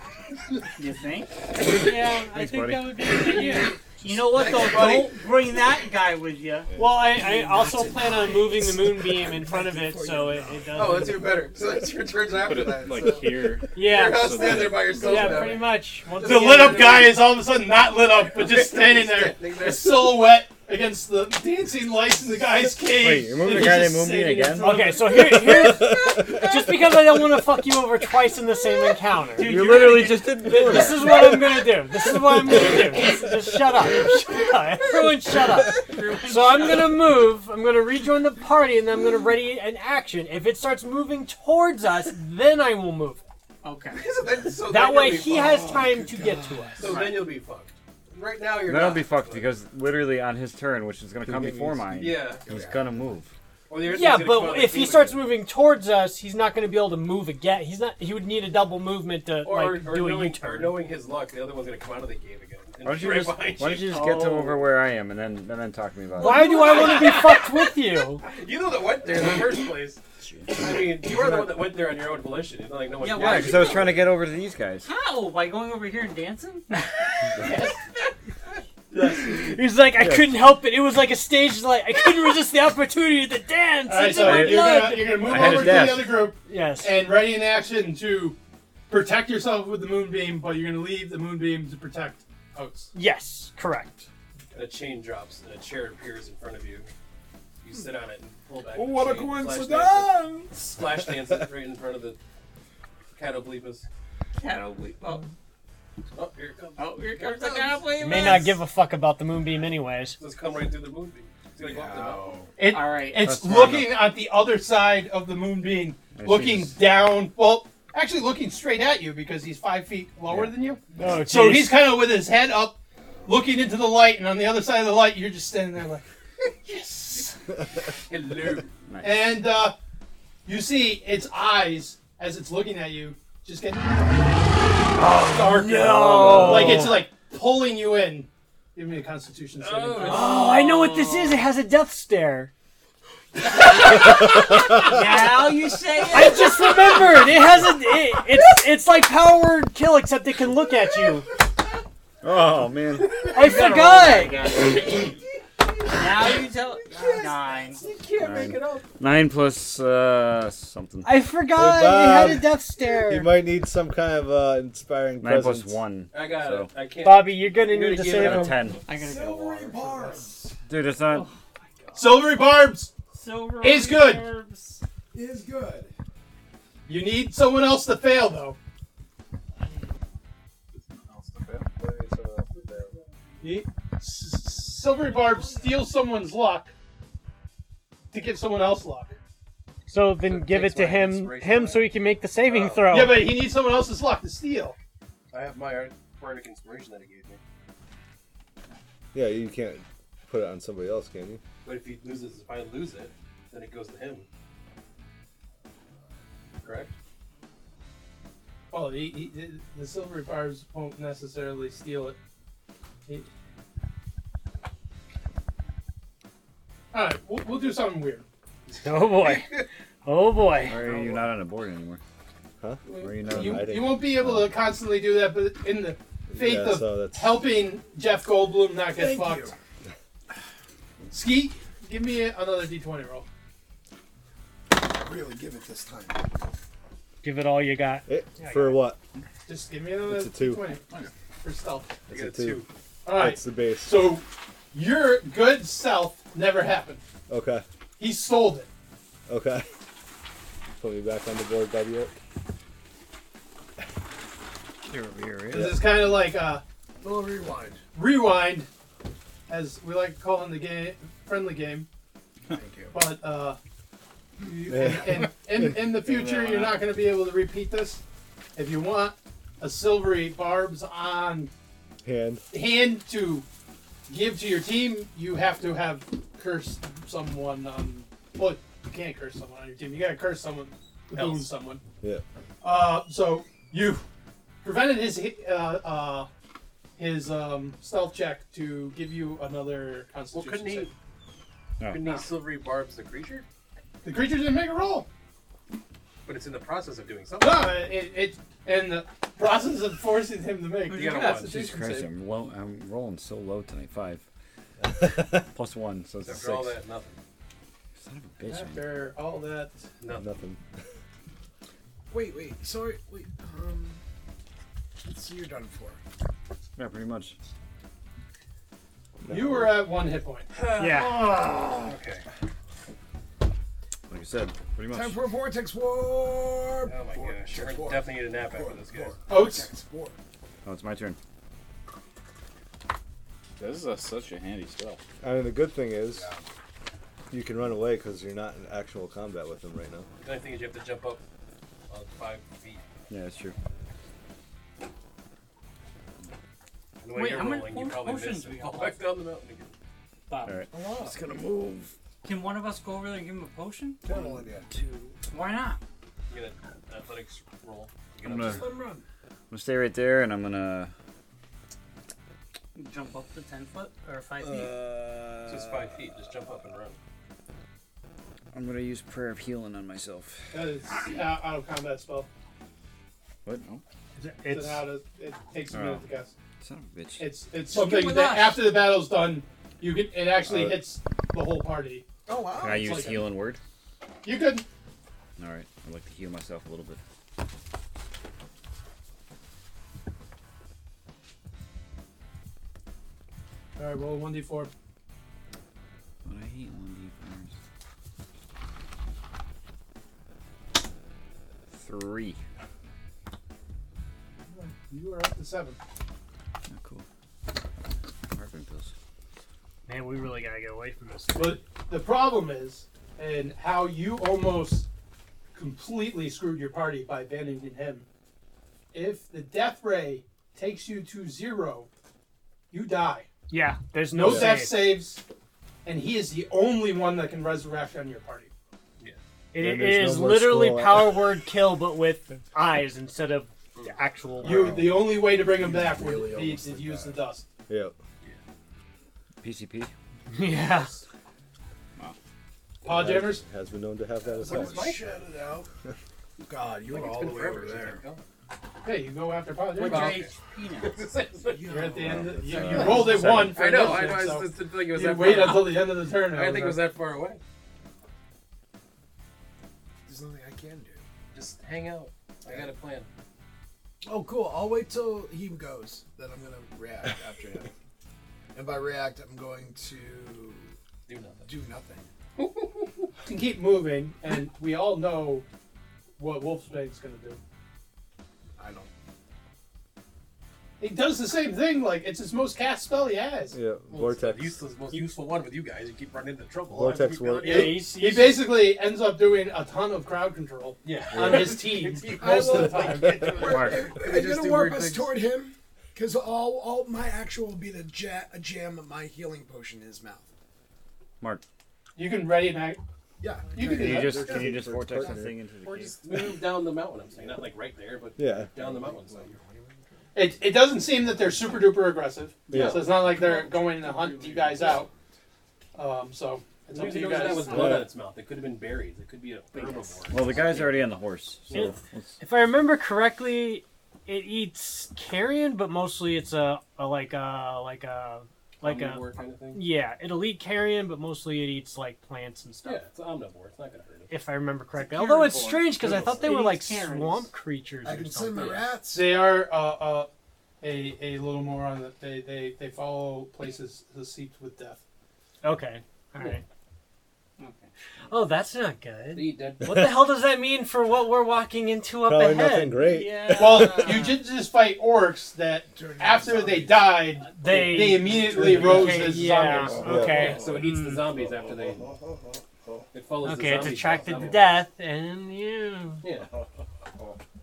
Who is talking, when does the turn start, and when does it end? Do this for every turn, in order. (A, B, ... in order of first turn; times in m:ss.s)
0:00.8-0:06.7 A
0:01.9-0:03.7 B
0:02.2-0:03.2 C
0:04.0-0:05.1 D
0:04.4-0:05.1 E
0:06.8-0:11.3 B
0:07.1-0:13.4 D
0:10.7-0:13.1 E
0:12.2-0:15.0 F
0:13.7-0:17.1 B
0:13.7-0:17.3 E
0:14.0-0:15.6 D
0:16.2-0:25.0 G
0:18.2-0:20.2 E
0:22.8-0:25.0 C
0:24.6-0:43.2 B
0:25.1-0:27.4 H
0:29.4-0:31.1 A
0:29.4-0:31.3 C
0:32.7-0:33.2 H
0:35.3-0:37.1 A
0:43.6-0:44.0 A
0:44.0-0:45.7 E
0:44.0-0:46.9 D
0:44.7-0:46.9 B
0:46.8-0:49.5 E
0:46.8-0:47.3 A
0:48.6-0:53.3 C
0:51.2-0:52.2 H
0:51.9-0:52.4 E
0:52.4-0:52.9 D
0:53.7-0:55.2 E
0:53.8-1:00.8 B
0:59.4-1:04.0 E
1:02.8-1:06.6 C
1:03.8-1:04.7 A
1:06.2-1:08.2 B
1:06.2-1:07.6 E
1:06.2-1:07.2 A
1:08.2-1:10.0 E
1:10.2-1:11.0 C
1:10.6-1:14.0 E
1:13.0-1:13.9 A
1:13.1-1:14.9 C
1:14.8-1:17.6 A
1:17.4-1:17.7 G
1:18.9-1:19.4 G
1:19.0-1:25.9 B
1:23.8-1:28.4 G
1:24.1-1:26.2 C
1:26.4-1:27.0 B
1:28.9-1:32.9 G
1:32.9-1:34.1 B
1:34.5-1:36.9 E
1:37.6-1:42.2 E
1:38.7-1:40.8 D
1:43.1-1:43.8 E
1:44.4-1:45.2 A
1:46.1-1:48.4 E
1:46.8-1:48.6 A
1:48.0-1:50.2 B
1:50.2-1:52.4 E
1:51.6-1:52.5 D
1:52.6-2:06.1 G
1:52.6-1:53.4 A
1:53.2-1:54.1 C
1:56.1-1:56.8 C
2:00.3-2:00.5 C
2:01.0-2:01.8 B
2:06.6-2:07.4 G
2:07.9-2:08.7 E
2:08.9-2:09.4 C
2:09.0-2:09.7 G
2:10.4-2:20.4 G
2:15.0-2:17.0 B
2:16.0-2:16.9 C
2:19.6-2:20.6 E
2:20.0-2:22.5 B
2:20.4-2:21.4 A
2:23.6-2:27.1 A
2:26.1-2:31.3 B
2:32.2-2:33.2 C
2:33.1-2:35.1 A
2:33.3-2:34.4 B
2:35.9-2:37.8 A
2:36.9-2:38.1 D
2:37.2-2:38.8 E
2:38.2-2:41.1 C
2:41.0-2:43.3 B
2:41.5-2:45.8 H
2:45.2-2:46.7 C
2:46.1-2:48.8 E
2:47.0-2:48.6 B
2:48.1-2:48.8 C
2:48.8-2:50.1 A
2:48.9-2:50.6 D
2:50.6-2:51.3 C
2:51.0-2:52.3 A
2:52.0-2:52.9 G
2:53.1-2:54.8 A
2:53.6-2:54.3 G
2:55.1-2:55.9 D
2:56.9-2:58.6 G
3:00.9-3:01.6 E
3:03.4-3:06.7 G
3:08.1-3:09.2 G
3:09.9-3:13.3 B
3:10.2-3:11.9 E
3:12.4-3:12.9 E
3:12.9-3:14.8 G
3:15.3-3:17.4 E
3:19.1-3:21.4 H
3:21.6-3:24.3 E
3:26.6-3:26.9 E
3:28.7-3:32.2 G
3:36.9-3:38.2 G
3:38.8-3:40.8 B
3:39.2-3:39.6 E
3:40.6-3:42.0 C
3:42.6-3:44.5 H
3:42.9-3:49.5 G
3:43.0-3:43.7 C
3:46.3-3:47.4 H
3:48.9-3:49.5 D
3:51.1-3:53.3 G
3:54.7-3:56.4 D
3:57.2-3:58.8 B
3:58.1-3:59.0 H
3:59.4-4:00.8 G
4:00.0-4:00.7 H
4:01.4-4:02.0 G
4:02.1-4:04.2 H
4:02.1-4:02.7 E
4:03.0-4:07.0 G
4:07.3-4:07.6 H
4:08.0-4:08.7 G
4:09.3-4:09.7 H
4:10.8-4:12.2 H
4:14.8-4:15.8 C
4:15.5-4:16.6 G
4:17.0-4:17.8 D
4:17.9-4:18.7 G
4:19.5-4:21.9 G
4:22.5-4:23.0 D
4:22.9-4:23.6 G
4:24.4-4:28.0 G
4:24.7-4:25.7 H
4:25.8-4:26.9 C
4:28.5-4:31.5 G
4:32.0-4:32.4 H
4:32.5-4:33.4 G
4:34.1-4:41.8 G
4:42.6-4:44.0 G
4:44.6-4:46.3 G
4:47.0-4:50.9 G
4:50.3-4:50.9 E
4:51.8-4:52.2 C
4:51.9-4:53.4 E
4:54.0-4:55.1 G
4:56.2-4:57.8 E
4:57.4-5:02.0 G
5:00.9-5:01.6 A
5:00.9-5:01.8 E
5:01.6-5:04.2 C
5:04.8-5:05.5 H
5:05.5-5:06.8 C
5:06.2-5:07.2 E
5:08.0-5:09.0 C
5:08.4-5:09.8 G
5:10.0-5:10.3 E
5:10.1-5:10.6 H
5:12.1-5:14.0 D
5:15.0-5:16.0 D
5:16.8-5:17.3 C
5:19.2-5:19.8 H
5:19.3-5:20.5 G
5:20.6-5:21.2 E
5:20.8-5:21.9 D
5:20.8-5:21.1 B
5:21.8-5:22.2 E
5:24.1-5:25.2 C
5:24.9-5:30.2 D
5:26.8-5:29.2 E
5:29.3-5:29.7 G
5:30.6-5:31.2 C
5:33.6-5:35.0 F
5:35.2-5:36.2 H
5:36.1-5:36.4 D
5:37.3-5:40.1 H
5:40.2-5:41.2 E
5:41.9-5:42.8 E
5:43.1-5:43.5 C
5:47.0-5:49.7 E
5:47.1-5:49.0 A
5:50.4-5:50.7 C
5:50.7-5:51.9 D
5:52.2-5:54.0 A
5:54.0-5:55.2 D
5:55.3-5:55.8 A
5:56.3-5:58.8 E
5:58.2-5:58.8 C
5:58.4-5:59.0 D
5:59.5-6:00.9 C
6:02.8-6:04.8 A
6:05.5-6:07.0 E
6:08.5-6:10.7 C
6:10.5-6:12.3 G
6:13.4-6:13.8 C
6:14.2-6:14.8 B
6:14.5-6:16.3 G
6:15.7-6:16.0 C
6:16.6-6:17.3 C
6:17.2-6:22.1 G
6:17.6-6:18.6 A
6:20.4-6:20.8 H
6:22.2-6:23.2 D
6:22.6-6:23.6 C
6:22.6-6:23.3 G
6:24.2-6:24.6 G
6:25.4-6:27.0 C
6:33.8-6:34.7 G
6:36.2-6:37.5 C
6:41.7-6:42.4 C
6:44.5-6:45.8 G
6:46.7-6:47.0 C
6:48.3-6:48.9 C
6:49.9-6:51.6 B
6:51.3-6:54.9 G
6:55.5-6:58.1 G
6:58.9-7:01.9 G
7:02.7-7:03.3 G
7:03.5-7:04.9 B
7:04.1-7:05.2 G
7:04.2-7:04.6 H
7:05.8-7:08.5 G
7:09.5-7:14.9 B
7:09.5-7:11.4 H
7:14.4-7:17.4 G
7:15.1-7:17.2 D
7:17.7-7:17.9 H
7:19.4-7:19.9 C
7:20.3-7:20.9 B
7:22.8-7:23.4 G
7:22.8-7:25.0 H
7:24.2-7:25.7 D
7:24.4-7:25.1 E
7:26.4-7:28.0 D
7:26.9-7:28.2 E
7:28.8-7:30.2 G
7:29.7-7:31.0 A
7:29.8-7:32.1 E
7:31.4-7:33.4 D
7:31.7-7:36.8 G
7:32.1-7:33.9 C
7:32.7-7:37.4 E
7:40.0-7:41.0 D
7:41.3-7:43.1 E
7:44.0-7:47.7 D
7:48.5-7:50.8 D
7:51.1-7:51.5 E
7:51.4-7:52.1 D
7:52.4-7:53.1 E
7:53.2-7:55.4 G
7:56.2-7:57.4 G
7:58.6-7:58.9 D
8:00.8-8:03.6 G
8:03.5-8:04.6 H
8:03.9-8:07.9 E
8:06.7-8:07.8 H
8:07.4-8:08.4 B
8:07.4-8:13.3 G
8:10.8-8:15.1 E
8:11.1-8:11.6 H
8:11.9-8:20.3 D
8:13.4-8:13.9 C
8:21.9-8:22.8 G
8:23.2-8:25.8 D
8:23.5-8:24.3 G
8:23.7-8:26.3 C
8:23.8-8:25.3 H
8:25.7-8:29.4 E
8:28.2-8:28.5 H
8:28.5-8:31.8 D
8:30.1-8:34.9 G
8:32.5-8:32.9 H
8:32.5-8:34.8 E
8:33.0-8:33.6 D
8:34.3-8:34.9 D
8:35.7-8:37.9 G
8:36.7-8:40.8 E
8:37.4-8:37.9 H
8:39.5-8:40.1 A
8:40.1-8:42.1 C
8:41.5-8:52.8 B
8:48.6-8:49.6 E
8:52.6-8:54.1 E
8:54.1-8:58.6 B
8:54.8-8:57.3 A
8:55.9-8:56.2 E
8:57.8-8:59.1 D
8:58.3-8:58.6 E
8:58.9-9:00.1 G
9:00.6-9:04.8 G
9:05.4-9:06.4 B
9:07.4-9:07.7 A
9:08.1-9:12.8 B
9:09.1-9:09.8 E
9:12.0-9:14.0 H
9:12.8-9:14.2 A
9:13.4-9:20.0 G
9:15.7-9:17.1 D
9:17.3-9:20.7 B
9:18.0-9:19.1 E
9:18.3-9:18.9 D
9:19.6-9:22.9 D
9:19.8-9:20.4 H
9:20.0-9:21.9 E
9:22.9-9:24.7 E
9:23.2-9:26.0 B
9:24.0-9:24.3 D
9:26.0-9:26.3 E